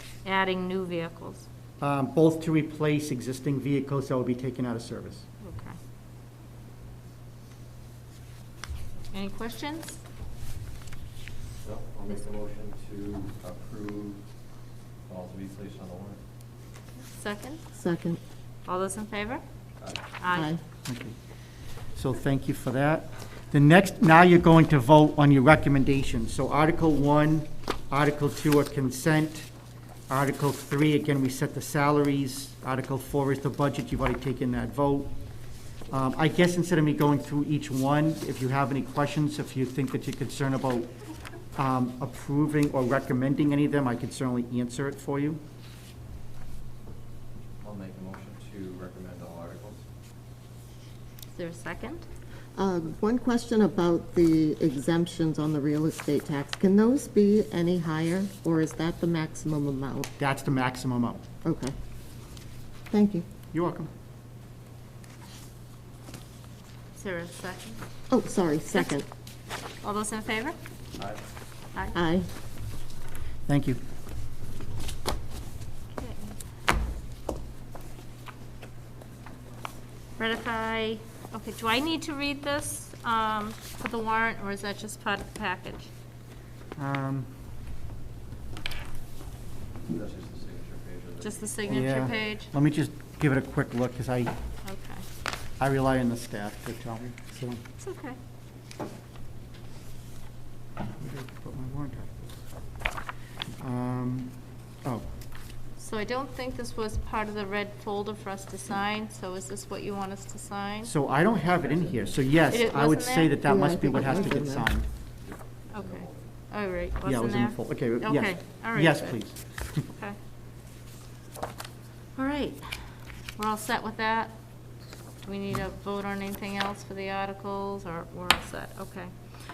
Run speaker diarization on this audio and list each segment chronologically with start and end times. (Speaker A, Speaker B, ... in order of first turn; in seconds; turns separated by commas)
Speaker A: 0.2-1.5, Speaker B: 1.8-5.2, Speaker A: 5.4-5.8, Speaker A: 9.1-10.0, Speaker C: 11.6-14.2, Speaker C: 15.1-16.2, Speaker A: 17.1-17.6, Speaker D: 17.8-18.2, Speaker A: 18.6-19.4, Speaker C: 19.8-20.1, Speaker A: 20.2-20.6, Speaker B: 20.9-21.1, Speaker B: 21.9-29.5, Speaker B: 30.1-35.1, Speaker B: 35.9-40.9, Speaker B: 41.5-45.4, Speaker C: 47.6-49.8, Speaker A: 51.3-52.0, Speaker D: 52.5-60.1, Speaker B: 60.2-61.2, Speaker D: 61.4-61.7, Speaker D: 62.9-63.2, Speaker B: 63.5-63.9, Speaker A: 66.9-67.8, Speaker D: 68.1-69.0, Speaker A: 69.8-70.6, Speaker D: 71.9-72.3, Speaker B: 73.5-73.8, Speaker A: 75.9-76.3, Speaker A: 80.2-85.9, Speaker B: 86.8-87.3, Speaker C: 89.9-91.5, Speaker A: 91.2-92.5, Speaker B: 91.7-94.3, Speaker A: 94.7-95.0, Speaker B: 95.6-97.6, Speaker A: 97.8-98.2, Speaker B: 100.9-102.3, Speaker B: 103.6-105.0, Speaker A: 105.8-110.9, Speaker B: 110.8-114.8, Speaker C: 111.6-112.1, Speaker A: 112.5-113.5, Speaker D: 113.4-114.7, Speaker C: 115.2-116.2, Speaker A: 115.7-119.2, Speaker B: 117.0-119.8, Speaker A: 119.9-120.2, Speaker A: 122.2-122.7, Speaker A: 123.4-124.3, Speaker A: 125.2-129.1